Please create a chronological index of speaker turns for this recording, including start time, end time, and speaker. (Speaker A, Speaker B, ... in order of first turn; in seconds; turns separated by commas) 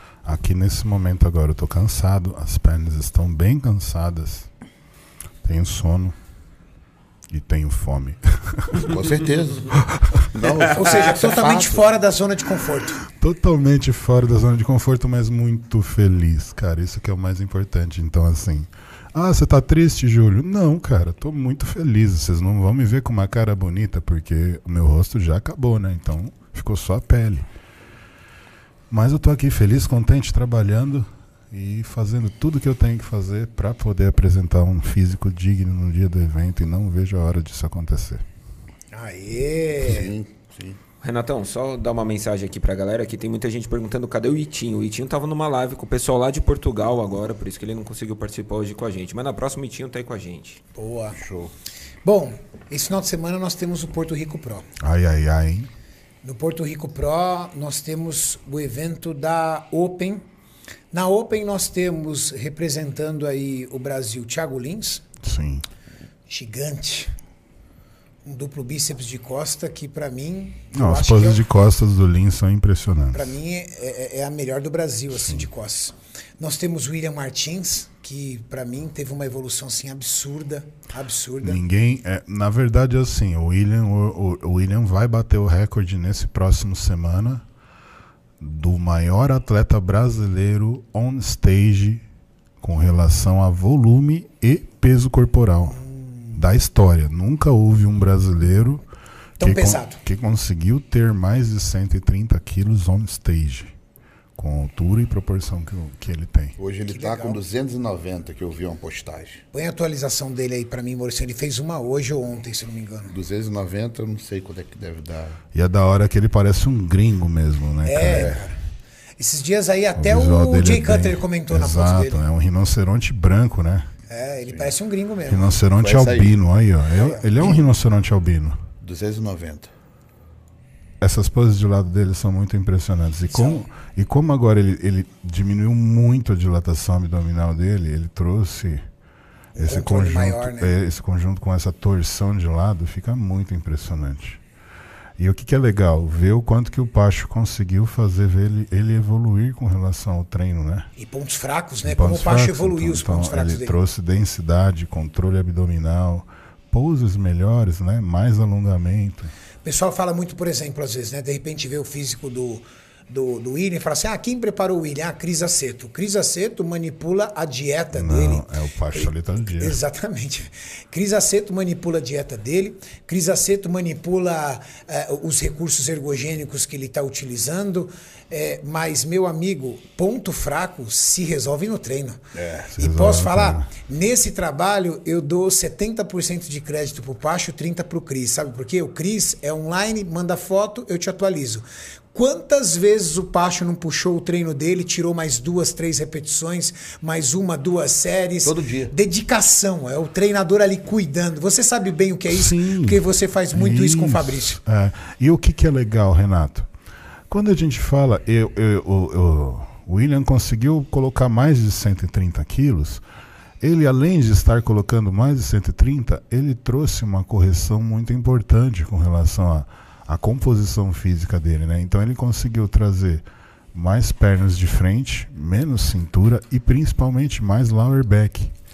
Speaker A: 0.2-4.5, Speaker A: 5.4-6.2, Speaker A: 7.3-8.9, Speaker B: 8.8-11.9, Speaker A: 9.8-10.2, Speaker C: 10.7-13.0, Speaker A: 13.1-27.5, Speaker A: 28.9-38.2, Speaker C: 38.9-40.1, Speaker B: 39.8-40.8, Speaker D: 41.0-50.6, Speaker C: 50.8-51.2, Speaker B: 51.1-51.5, Speaker C: 52.0-54.7, Speaker A: 54.8-55.7, Speaker C: 56.2-60.2, Speaker C: 60.9-65.0, Speaker A: 65.2-65.6, Speaker C: 66.3-67.1, Speaker C: 68.2-71.4, Speaker A: 70.7-73.3, Speaker C: 73.1-81.6, Speaker A: 75.1-75.5, Speaker A: 81.4-87.4, Speaker A: 88.4-92.0, Speaker A: 92.6-95.8, Speaker C: 95.7-96.4, Speaker A: 96.3-98.8, Speaker C: 99.4-100.0, Speaker A: 99.4-103.7, Speaker A: 104.4-106.5, Speaker B: 106.6-109.4, Speaker C: 106.9-107.4, Speaker C: 109.5-113.1, Speaker B: 113.1-115.4, Speaker A: 115.5-118.3, Speaker C: 117.8-118.6, Speaker B: 118.0-118.4, Speaker C: 119.2-122.2, Speaker A: 120.0-123.9, Speaker C: 124.1-125.5, Speaker A: 125.3-128.6, Speaker B: 125.8-126.4, Speaker C: 127.0-127.6, Speaker B: 128.8-129.7, Speaker A: 131.0-138.8, Speaker C: 133.3-133.6, Speaker C: 139.6-140.7, Speaker A: 139.6-144.4, Speaker A: 145.2-150.9, Speaker C: 151.0-153.8, Speaker A: 151.8-159.3, Speaker C: 159.6-182.2, Speaker A: 167.9-169.8, Speaker B: 182.3-182.8, Speaker A: 182.8-183.7, Speaker C: 182.8-204.6, Speaker B: 198.4-198.9, Speaker A: 202.3-206.7, Speaker A: 207.3-213.0, Speaker A: 213.6-228.5